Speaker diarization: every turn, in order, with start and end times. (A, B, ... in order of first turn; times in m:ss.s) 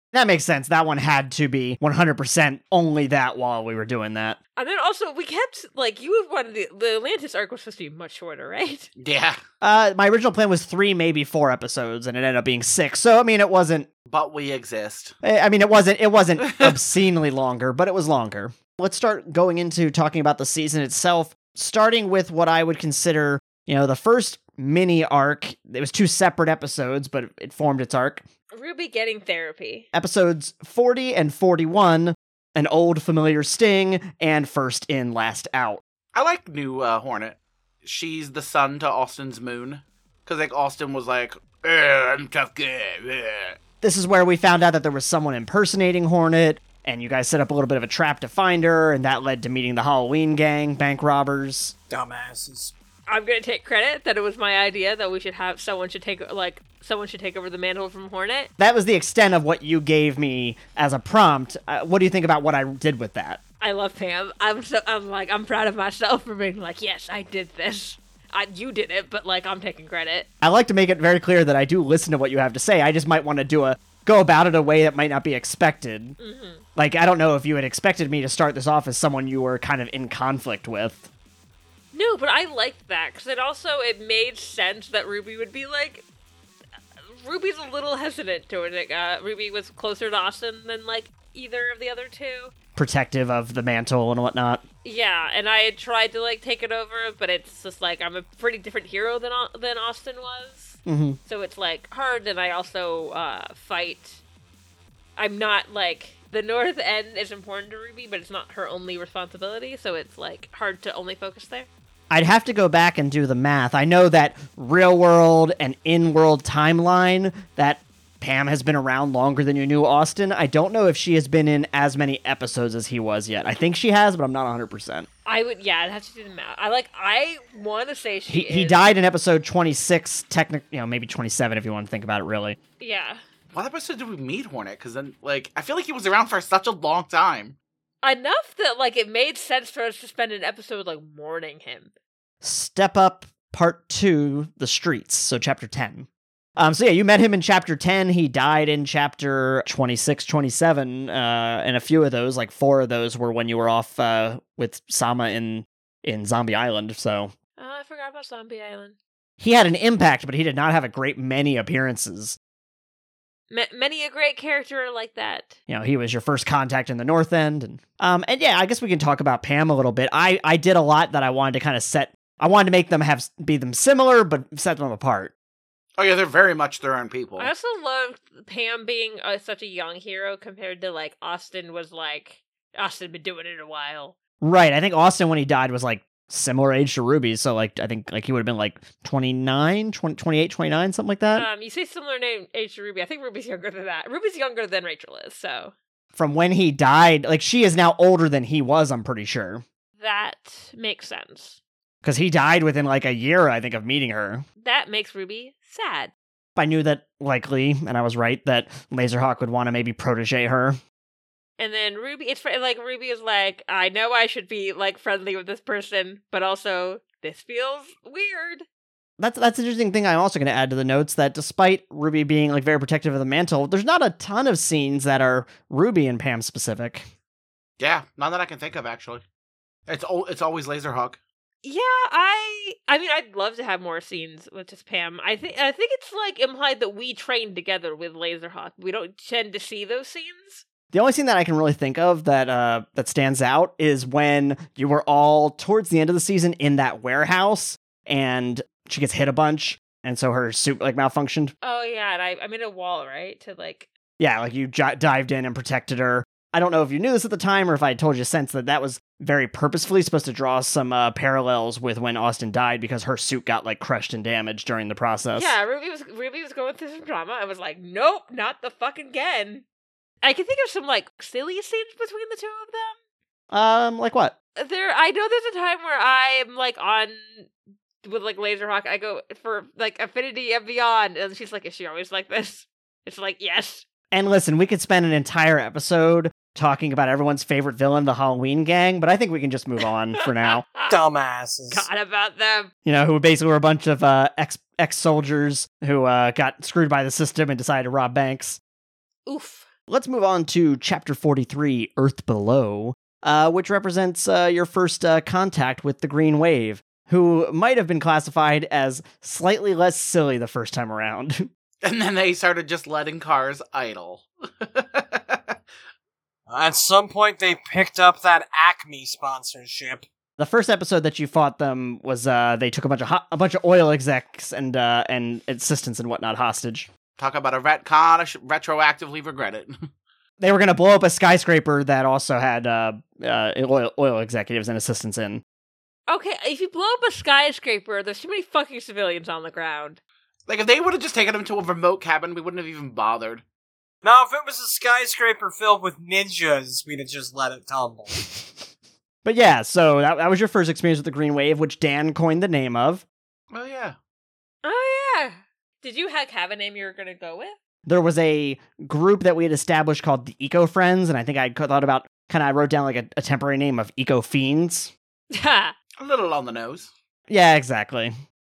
0:00.1-0:04.4 A
0:04.6-0:08.9 B
0:09.0-0:09.4 C
0:09.6-0:13.9 A
0:14.1-0:15.2 C
0:15.2-0:28.2 A
0:16.4-0:16.8 C
0:28.5-0:29.9 B
0:29.9-0:35.8 A
0:36.1-0:43.6 C
0:43.8-0:51.7 A
0:51.9-0:52.7 D
0:53.1-0:58.5 B
0:58.6-1:03.4 A
1:03.6-1:10.3 B
1:10.4-1:16.2 A
1:16.2-1:16.6 B
1:16.8-1:21.1 A
1:21.9-1:26.0 B
1:27.1-1:32.5 B
1:32.8-1:34.6 A
1:34.8-1:44.2 B
1:40.9-1:41.2 A
1:45.2-1:51.7 B
1:52.1-2:05.1 A
2:05.2-2:08.9 B
2:08.3-2:12.6 A
2:12.8-2:13.2 B
2:13.5-2:17.6 C
2:18.0-2:21.9 B
2:22.4-2:37.3 A
2:37.6-2:39.0 B
2:39.4-2:42.4 A
2:43.5-2:45.6 B
2:45.7-2:55.3 A
2:56.0-2:57.5 C
2:57.4-3:04.1 B
3:04.4-3:11.5 A
3:11.4-3:15.7 B
3:16.2-3:19.6 A
3:20.0-3:21.6 B
3:22.0-3:24.5 A
3:24.6-3:26.1 B
3:26.6-3:30.8 A
3:31.6-3:38.6 B
3:39.2-3:47.1 A
3:47.8-3:49.2 C
3:49.9-3:51.2 C
3:51.6-4:00.6 B
4:00.9-4:11.5 A
4:11.6-4:13.9 B
4:14.2-4:25.5 A
4:25.4-4:29.6 B
4:30.2-4:33.0 B
4:33.5-4:34.3 A
4:34.6-4:37.5 B
4:38.0-4:43.8 B
4:44.1-4:50.6 A
4:50.4-4:50.8 B
4:50.9-4:51.9 D
4:51.7-4:52.7 B
4:52.8-4:58.6 A
4:59.2-4:59.7 B
4:59.9-5:11.5 A
5:11.8-5:15.6 C
5:16.5-5:20.0 D
5:20.4-5:26.9 A
5:27.2-5:29.9 C
5:30.4-5:35.4 A
5:36.1-5:40.0 B
5:40.5-5:43.4 C
5:44.0-5:48.2 D
5:49.2-5:53.0 A
5:53.5-5:54.0 C
5:54.6-5:57.5 B
5:57.9-6:04.9 A
6:05.3-6:05.7 B
6:06.0-6:06.9 C
6:07.3-6:08.1 A